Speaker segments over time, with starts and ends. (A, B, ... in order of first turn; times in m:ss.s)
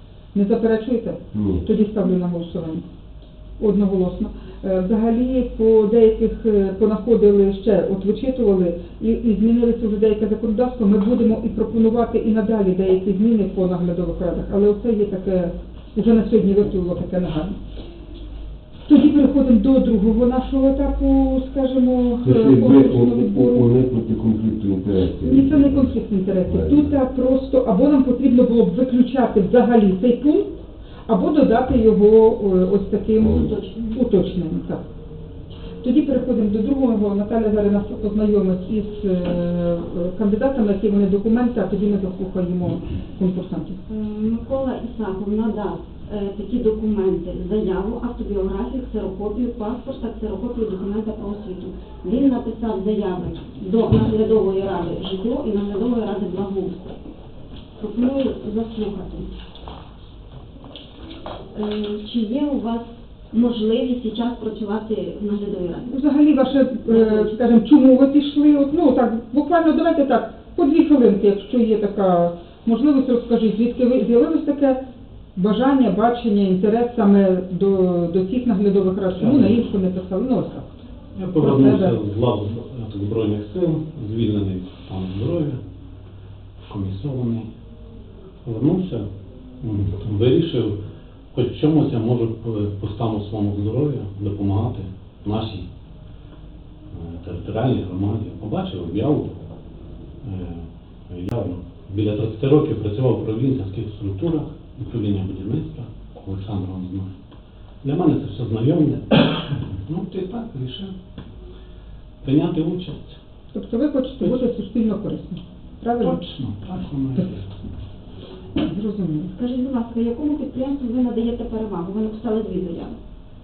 0:00.3-0:02.8 A
0:01.3-0:01.6 B
0:03.6-0:17.6 A
0:18.9-0:23.7 A
0:22.2-0:25.9 B
0:25.2-0:34.8 A
0:26.4-0:26.9 B
0:33.2-0:33.9 C
0:35.8-0:43.8 A
0:43.9-0:56.9 C
0:57.8-0:59.3 C
1:01.5-1:05.9 C
1:05.9-1:14.8 A
1:06.9-1:07.5 C
1:15.4-1:20.7 A
1:19.2-1:19.6 D
1:21.1-1:25.6 D
1:21.4-1:22.0 A
1:26.7-1:27.5 D
1:28.4-1:29.0 D
1:29.6-1:30.8 D
1:31.3-1:35.6 D
1:36.9-1:39.3 D
1:40.2-1:47.1 D
1:47.8-1:50.9 D
1:52.2-1:53.2 D
1:53.5-1:56.3 A
1:56.0-1:57.4 D
1:58.6-1:59.3 A
1:59.3-2:03.0 C